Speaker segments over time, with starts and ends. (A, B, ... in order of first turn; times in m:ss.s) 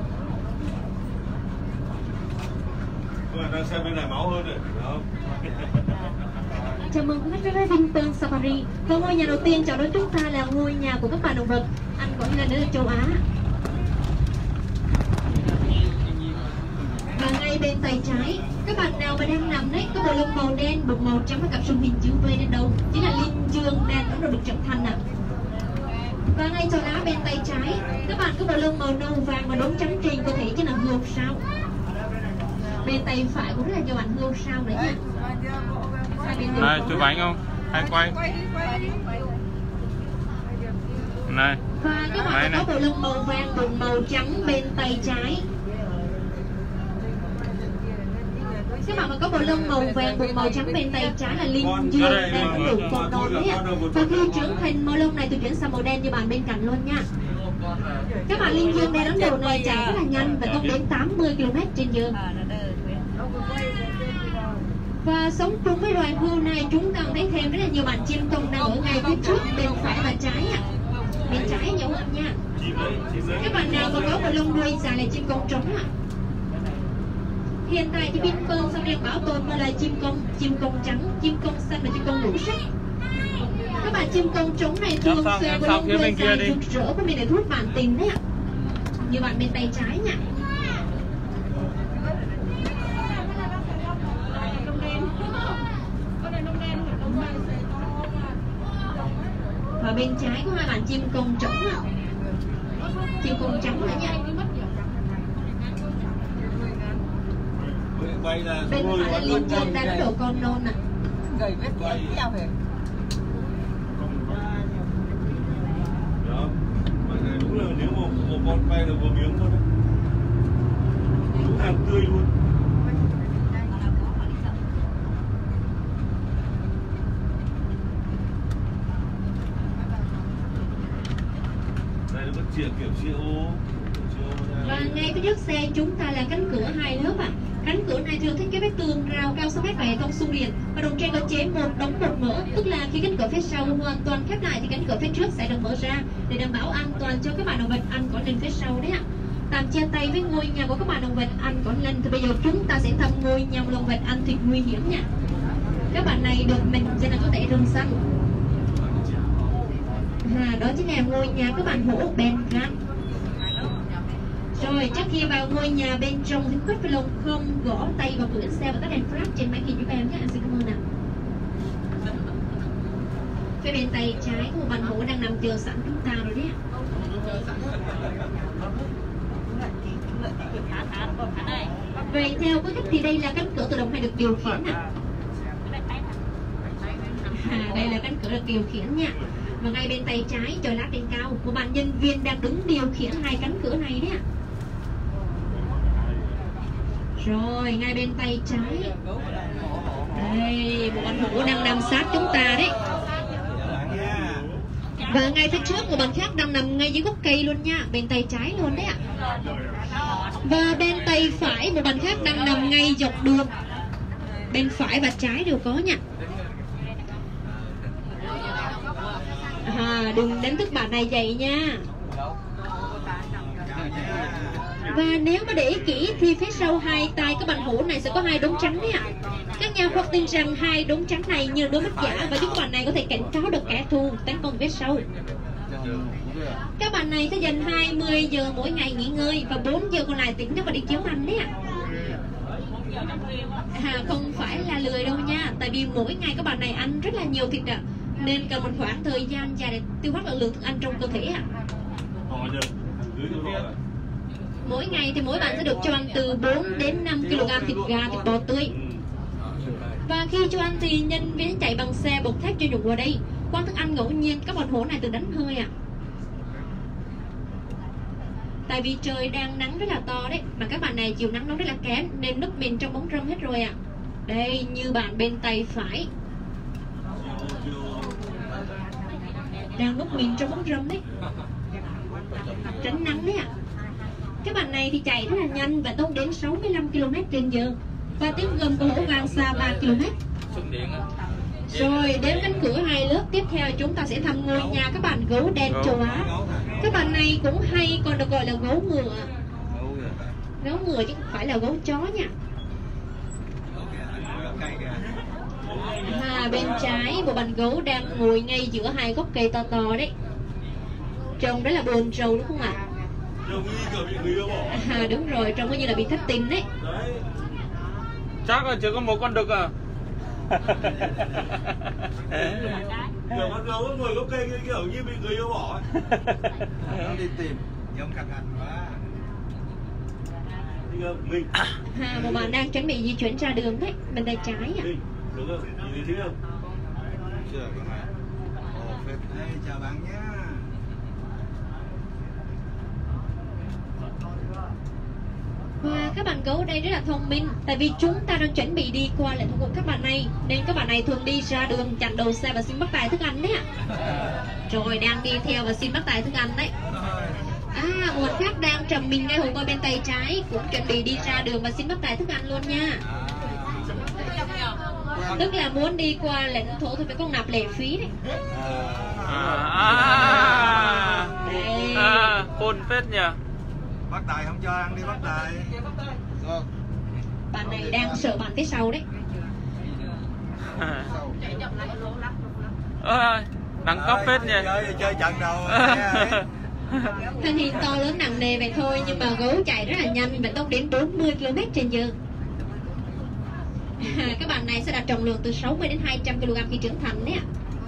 0:03.3-0:05.1 A
0:06.9-0:13.2 B
0:17.1-0:25.0 B
0:26.4-0:31.4 B
0:32.8-0:35.0 B
0:36.2-0:37.0 B
0:36.6-0:38.2 C
0:41.3-0:41.6 C
0:41.8-0:45.4 B
0:42.3-0:42.7 C
0:48.8-0:57.1 B
0:51.6-0:54.3 A
0:52.0-0:52.9 C
0:58.3-1:02.2 B
1:05.0-1:10.6 B
1:11.3-1:12.4 B
1:12.6-1:14.2 A
1:13.4-1:15.9 B
1:17.7-1:22.6 B
1:23.8-1:28.2 B
1:25.0-1:26.6 C
1:29.1-1:30.2 B
1:39.8-1:41.8 B
1:43.2-1:44.2 B
1:47.8-1:49.8 A
1:48.7-1:50.8 B
1:51.8-1:52.2 A
1:54.1-1:54.3 A
1:56.2-1:59.6 A
2:01.3-2:02.3 A
2:12.1-2:15.0 A
2:14.6-2:35.0 B
2:35.9-2:38.0 B
2:40.2-2:42.8 B
2:44.6-2:50.8 B
2:53.6-2:56.6 B
3:02.0-3:04.8 B
3:07.3-3:14.2 B
3:17.2-3:18.9 B
3:20.1-3:22.7 B
3:23.6-3:24.4 D
3:25.1-3:29.0 B
3:30.4-3:33.5 B
3:34.5-3:36.0 B
3:37.4-3:38.0 D
3:39.6-3:41.8 B
3:43.6-3:44.7 D
3:44.9-3:49.0 B
3:49.6-3:55.0 B
3:55.7-3:56.6 D
3:56.8-4:01.5 B
4:03.7-4:11.4 B
4:12.3-4:13.8 A
4:14.6-4:18.7 B
4:18.7-4:19.0 A
4:20.1-4:25.7 B
4:28.7-4:33.8 B
4:34.3-4:36.1 B
4:37.1-4:38.2 A
4:39.8-4:41.0 B
4:42.8-4:43.5 B
4:44.4-4:50.1 B
4:51.7-4:56.3 B
4:55.7-4:56.0 C
4:56.0-4:56.9 D
4:56.8-4:59.3 B
4:59.7-5:00.3 D
5:00.6-5:02.3 B
5:03.7-5:05.1 D
5:05.6-5:07.0 A
5:06.0-5:10.1 B
5:11.4-5:12.8 B
5:13.4-5:14.9 A
5:14.7-5:16.7 B
5:16.8-5:17.2 A
5:18.5-5:19.7 C
5:22.3-5:25.9 A
5:26.8-5:29.0 D
5:30.9-5:31.5 A
5:31.9-5:34.9 B
5:34.8-5:36.4 A
5:37.4-5:38.1 D
5:38.7-5:40.7 D
5:45.8-5:53.6 B
5:54.7-5:56.7 B
5:56.9-5:57.4 D
5:57.7-6:03.0 B
6:03.0-6:04.0 D
6:05.1-6:05.4 D
6:05.3-6:08.1 B
6:08.5-6:11.0 D
6:09.3-6:11.3 C
6:11.3-6:12.3 B
6:11.9-6:13.4 C
6:14.1-6:15.8 D
6:16.4-6:16.6 D
6:17.5-6:19.0 B
6:20.8-6:21.1 C
6:23.0-6:24.7 C
6:23.9-6:26.4 D
6:25.7-6:26.4 C
6:27.4-6:32.2 B
6:34.0-6:37.4 B